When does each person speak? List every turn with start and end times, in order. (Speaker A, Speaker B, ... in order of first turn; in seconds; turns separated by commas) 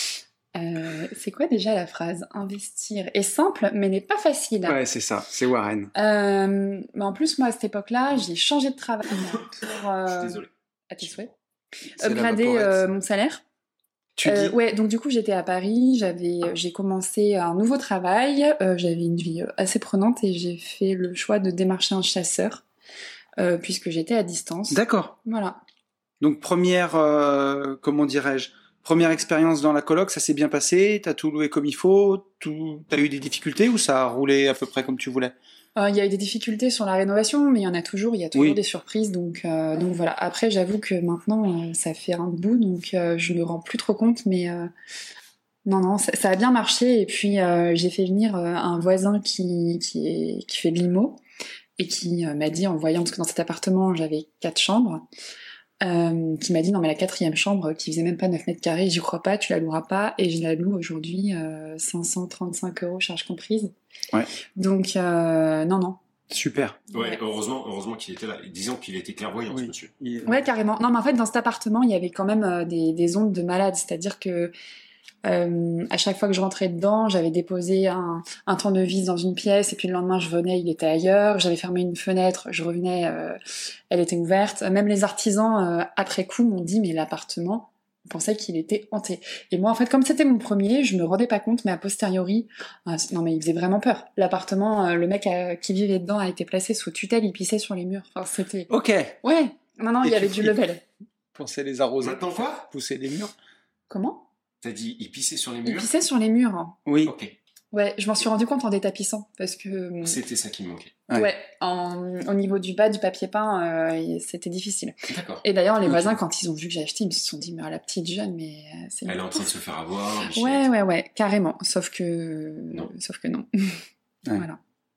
Speaker A: 0.6-4.8, Speaker B: 4.7-5.9, Speaker A: 5.9-11.3, Speaker C: 10.0-11.3, Speaker A: 12.0-13.4, Speaker B: 12.0-12.9, Speaker B: 14.2-14.6, Speaker A: 14.2-22.6, Speaker A: 23.4-25.6, Speaker B: 24.7-25.1, Speaker B: 26.2-35.4, Speaker A: 35.8-44.7, Speaker A: 45.7-51.2, Speaker A: 51.8-55.1, Speaker A: 55.8-63.7, Speaker A: 64.6-66.0, Speaker B: 66.3-66.8, Speaker A: 66.9-67.2, Speaker C: 66.9-69.9, Speaker B: 69.5-70.5, Speaker A: 70.2-74.5, Speaker A: 75.2-83.4, Speaker A: 83.9-98.7, Speaker B: 98.7-99.2, Speaker A: 99.2-100.8, Speaker B: 100.0-100.6, Speaker B: 101.3-103.3, Speaker C: 102.0-102.7, Speaker A: 103.9-104.3, Speaker C: 104.6-105.9, Speaker A: 105.7-106.8, Speaker B: 106.9-107.1, Speaker C: 107.0-107.3, Speaker A: 107.7-110.2, Speaker C: 110.0-111.0, Speaker A: 111.1-119.5, Speaker C: 115.1-115.5, Speaker B: 115.9-116.1, Speaker C: 119.1-120.7, Speaker A: 120.3-123.8, Speaker A: 124.3-124.6